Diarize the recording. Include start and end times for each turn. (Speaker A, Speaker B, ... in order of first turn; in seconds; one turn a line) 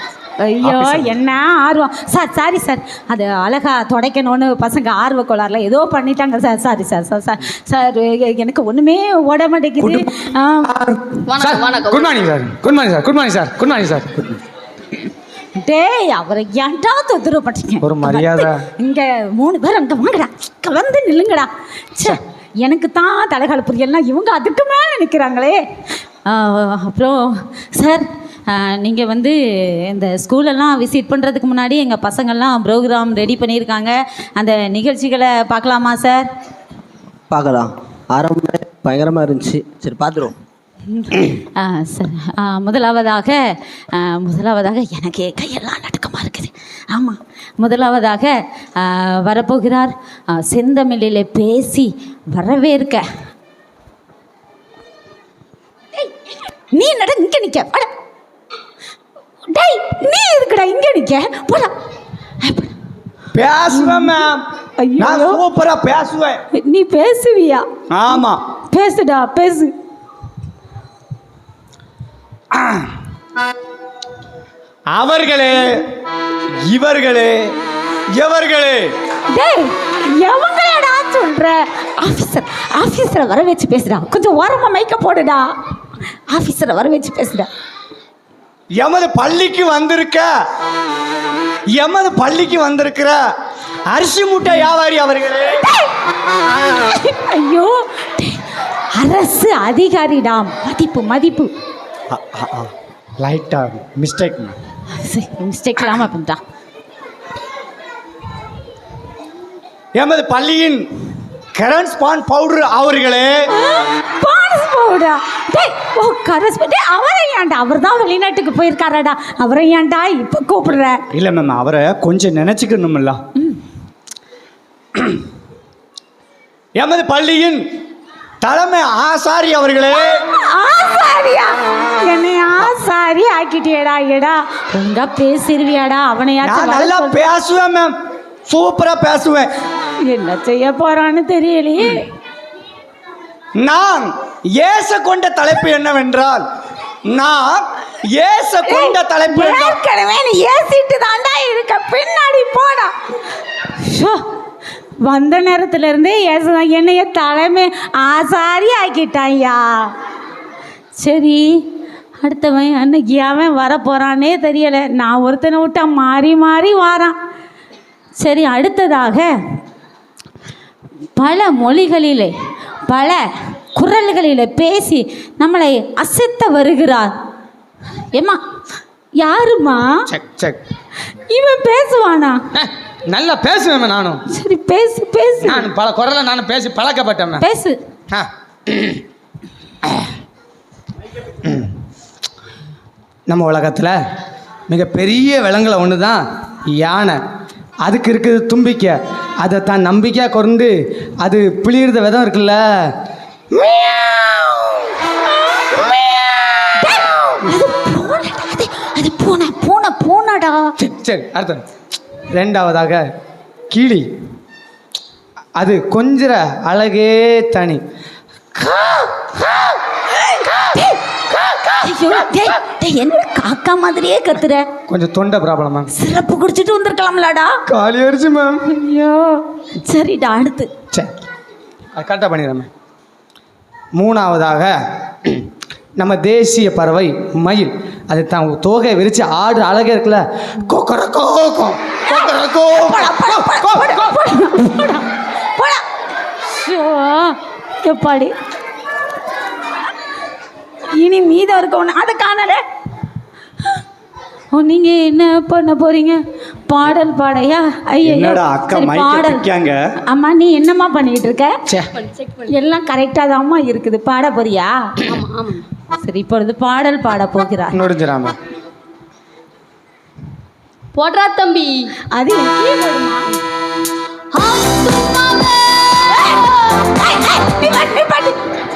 Speaker A: 0.4-10.8
Speaker B: 0.6-1.0
Speaker C: 10.9-14.4
Speaker D: 11.2-12.2
Speaker A: 15.6-25.6
Speaker C: 17.8-18.6
Speaker A: 26.2-36.3
Speaker E: 37.3-40.3
Speaker A: 40.9-53.0
Speaker A: 56.7-57.9
Speaker A: 59.5-61.7
Speaker A: 62.4-62.7
Speaker B: 63.3-64.4
Speaker A: 63.7-64.3
Speaker A: 64.8-65.4
Speaker B: 65.0-66.4
Speaker A: 66.5-68.2
Speaker B: 67.9-68.4
Speaker A: 68.7-69.7
Speaker B: 72.5-72.9
Speaker B: 74.9-75.8
Speaker B: 76.6-77.5
Speaker B: 78.1-78.9
Speaker A: 79.3-85.5
Speaker A: 86.3-87.5
Speaker B: 88.8-90.3
Speaker B: 91.7-93.2
Speaker B: 93.9-95.6
Speaker A: 95.7-95.9
Speaker A: 96.7-98.4
Speaker A: 98.9-101.5
Speaker B: 102.1-104.5
Speaker A: 104.9-106.4
Speaker B: 109.9-110.9
Speaker B: 111.5-113.4
Speaker A: 113.5-121.0
Speaker B: 121.1-123.2
Speaker B: 126.8-127.6
Speaker B: 128.4-130.2
Speaker A: 129.9-137.2
Speaker B: 136.4-137.9
Speaker B: 138.4-139.5
Speaker A: 140.0-142.1
Speaker B: 143.6-146.4
Speaker B: 147.1-149.8
Speaker A: 148.6-152.9
Speaker A: 153.8-154.2
Speaker A: 155.0-159.9
Speaker A: 161.0-161.6
Speaker A: 162.2-167.2
Speaker A: 168.2-169.3
Speaker A: 171.2-172.3
Speaker A: 172.9-173.2
Speaker A: 173.8-177.1
Speaker A: 178.1-178.4
Speaker A: 179.2-180.1
Speaker C: 180.1-180.6
Speaker A: 181.3-182.4
Speaker C: 182.5-184.2
Speaker A: 184.3-185.7
Speaker C: 185.4-187.4
Speaker A: 187.4-187.8
Speaker C: 188.1-189.0
Speaker C: 191.4-191.7
Speaker C: 193.3-194.0
Speaker C: 194.7-197.2
Speaker C: 197.8-202.9
Speaker C: 203.6-204.5
Speaker A: 206.7-210.7
Speaker C: 210.8-211.6
Speaker C: 212.3-213.0
Speaker C: 213.7-214.1
Speaker C: 215.6-217.8
Speaker A: 220.2-221.0
Speaker A: 221.8-224.7
Speaker C: 224.9-225.9
Speaker A: 225.9-227.5
Speaker C: 227.7-228.6
Speaker A: 228.7-230.7
Speaker C: 231.9-232.7
Speaker C: 233.9-235.4
Speaker C: 236.0-244.1
Speaker A: 242.1-245.8
Speaker A: 246.5-248.3
Speaker A: 250.9-252.6
Speaker A: 254.5-259.5
Speaker B: 258.0-259.8
Speaker A: 260.1-261.6
Speaker D: 262.1-262.5
Speaker A: 262.5-265.0
Speaker D: 265.0-265.6
Speaker A: 265.9-267.8
Speaker C: 267.7-268.3
Speaker D: 270.9-271.9
Speaker A: 272.1-273.3
Speaker D: 274.3-275.8
Speaker A: 276.1-278.4